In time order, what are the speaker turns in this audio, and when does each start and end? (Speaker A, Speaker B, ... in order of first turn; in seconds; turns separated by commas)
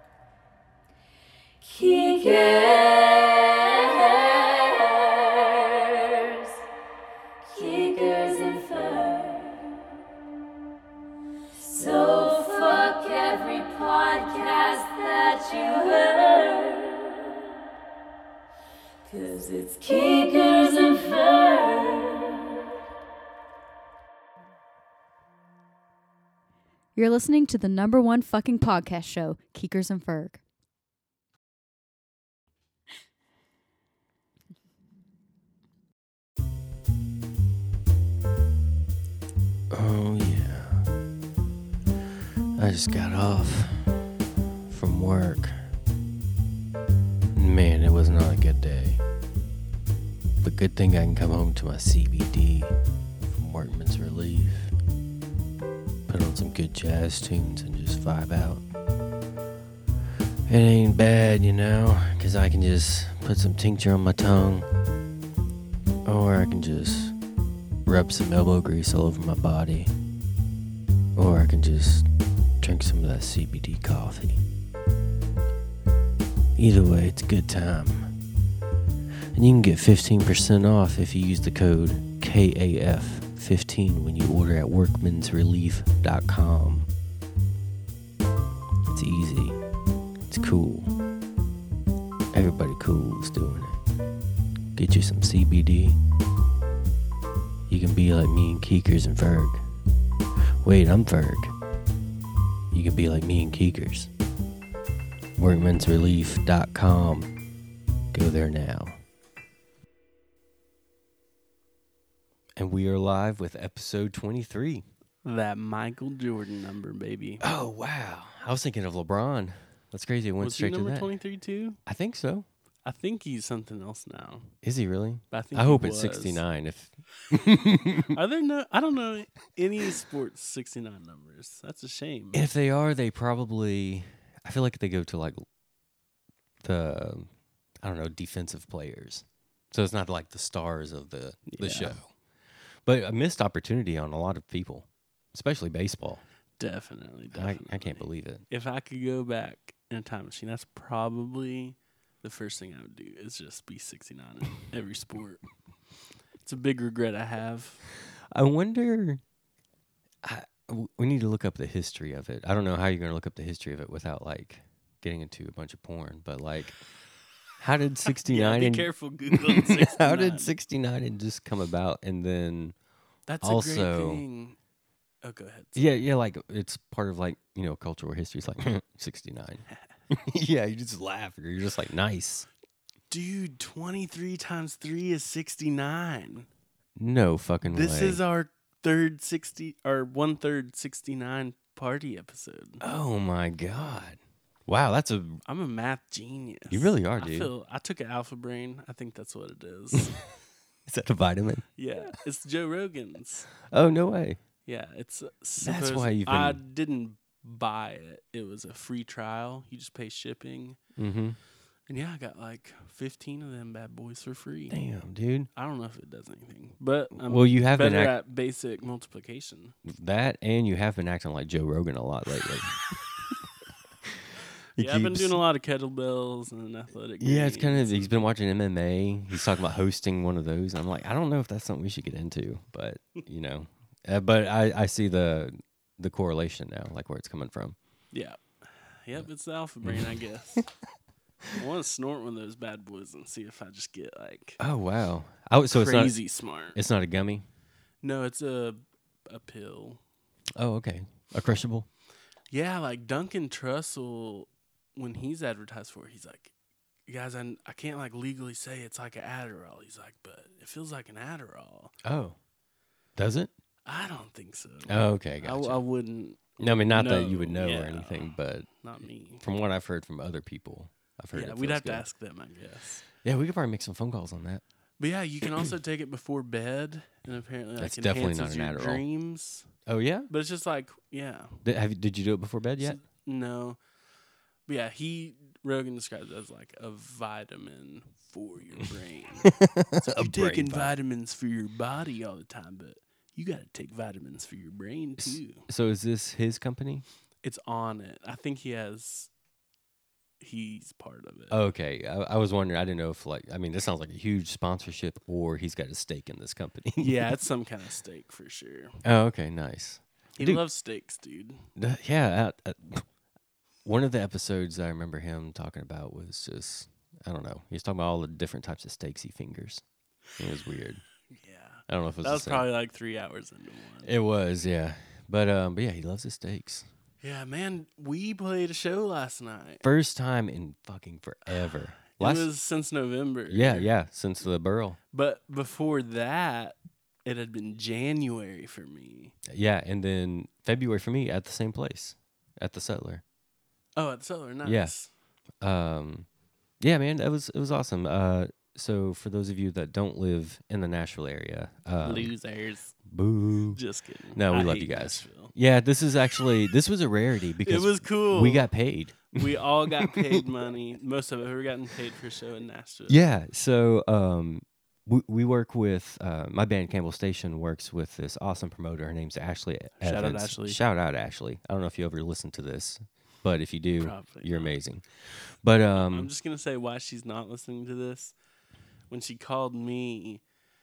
Speaker A: 1.6-6.6, Speaker A: 7.4-9.6, Speaker A: 11.5-17.3, Speaker A: 19.1-22.5, Speaker A: 26.9-29.8, Speaker B: 26.9-30.2, Speaker C: 39.7-40.8, Speaker C: 42.5-43.9, Speaker C: 44.7-45.6, Speaker C: 47.3-49.0, Speaker C: 50.4-52.8, Speaker C: 53.3-54.7, Speaker C: 56.1-58.6, Speaker C: 60.5-64.7, Speaker C: 66.0-67.1, Speaker C: 67.8-69.9, Speaker C: 71.2-72.1, Speaker C: 72.6-74.4, Speaker C: 76.6-78.1, Speaker C: 79.3-86.9, Speaker C: 88.9-89.6, Speaker C: 90.3-90.9, Speaker C: 92.3-93.8, Speaker C: 94.7-96.0, Speaker C: 97.7-99.6, Speaker C: 100.6-101.5, Speaker C: 102.7-104.1, Speaker C: 105.4-107.3, Speaker C: 108.1-109.0, Speaker C: 112.5-114.8, Speaker D: 115.2-117.4, Speaker C: 117.4-121.1, Speaker D: 120.4-121.8, Speaker C: 121.8-122.5, Speaker D: 122.8-124.5, Speaker C: 124.6-128.1, Speaker D: 125.3-126.4, Speaker D: 128.1-132.4, Speaker C: 132.3-135.4, Speaker C: 136.6-137.3, Speaker C: 137.8-142.0, Speaker D: 141.5-142.0, Speaker C: 142.8-146.2, Speaker D: 146.6-155.4, Speaker C: 147.3-148.4, Speaker D: 156.4-157.8, Speaker C: 158.3-159.2, Speaker C: 160.2-166.8, Speaker C: 167.6-172.7, Speaker D: 168.3-170.5, Speaker D: 173.3-174.6, Speaker C: 173.4-174.2, Speaker D: 175.2-175.9, Speaker C: 175.8-182.4, Speaker D: 183.1-186.5, Speaker C: 187.0-188.2, Speaker D: 187.6-192.8, Speaker C: 192.8-195.4, Speaker D: 195.4-200.2, Speaker C: 196.7-197.5, Speaker C: 200.9-201.6, Speaker D: 201.8-203.5, Speaker C: 203.7-204.4, Speaker D: 204.7-210.8, Speaker C: 205.6-206.6, Speaker C: 211.0-211.4, Speaker D: 211.9-214.8, Speaker C: 214.7-215.5, Speaker D: 215.6-219.7, Speaker C: 217.2-218.1, Speaker C: 219.8-222.8, Speaker C: 224.8-225.4, Speaker D: 224.8-228.3, Speaker C: 227.2-237.8, Speaker D: 238.1-240.7, Speaker C: 239.8-240.6, Speaker D: 241.6-244.6, Speaker C: 244.6-246.2, Speaker D: 245.7-246.8, Speaker C: 246.7-247.4, Speaker D: 248.0-250.0, Speaker C: 250.6-251.9, Speaker D: 252.5-256.5, Speaker D: 257.1-261.9, Speaker C: 262.0-262.4, Speaker C: 263.2-263.5, Speaker D: 263.9-269.4, Speaker C: 264.9-265.8, Speaker C: 266.6-268.7, Speaker C: 269.4-272.1, Speaker D: 271.3-273.0, Speaker C: 273.2-274.6, Speaker D: 275.0-279.7, Speaker C: 277.8-279.0, Speaker C: 279.9-280.3, Speaker D: 280.3-281.6, Speaker C: 281.6-283.0, Speaker D: 282.8-283.8, Speaker D: 284.7-295.6, Speaker C: 289.4-290.9, Speaker C: 295.2-297.0, Speaker D: 297.4-299.3, Speaker D: 300.4-301.6, Speaker C: 301.5-307.2, Speaker D: 307.0-308.9, Speaker C: 309.0-310.6, Speaker D: 310.4-311.6, Speaker C: 311.8-313.1, Speaker C: 313.8-319.8, Speaker C: 320.4-321.0, Speaker D: 321.3-324.1, Speaker C: 321.9-322.7, Speaker C: 324.0-326.9, Speaker D: 327.2-329.8, Speaker C: 329.8-332.5, Speaker D: 332.1-333.9, Speaker C: 333.5-335.0, Speaker D: 335.1-339.3, Speaker C: 339.5-343.2, Speaker D: 343.9-345.1, Speaker C: 344.6-344.9, Speaker C: 345.6-346.3, Speaker C: 346.8-352.3, Speaker D: 352.0-352.9, Speaker C: 353.1-353.8, Speaker D: 353.7-355.5, Speaker C: 354.3-360.4, Speaker D: 357.6-358.7, Speaker D: 359.3-363.2, Speaker C: 363.1-375.0, Speaker D: 370.0-370.8, Speaker D: 374.0-374.8, Speaker C: 375.6-376.3, Speaker D: 376.0-378.3, Speaker D: 379.1-380.4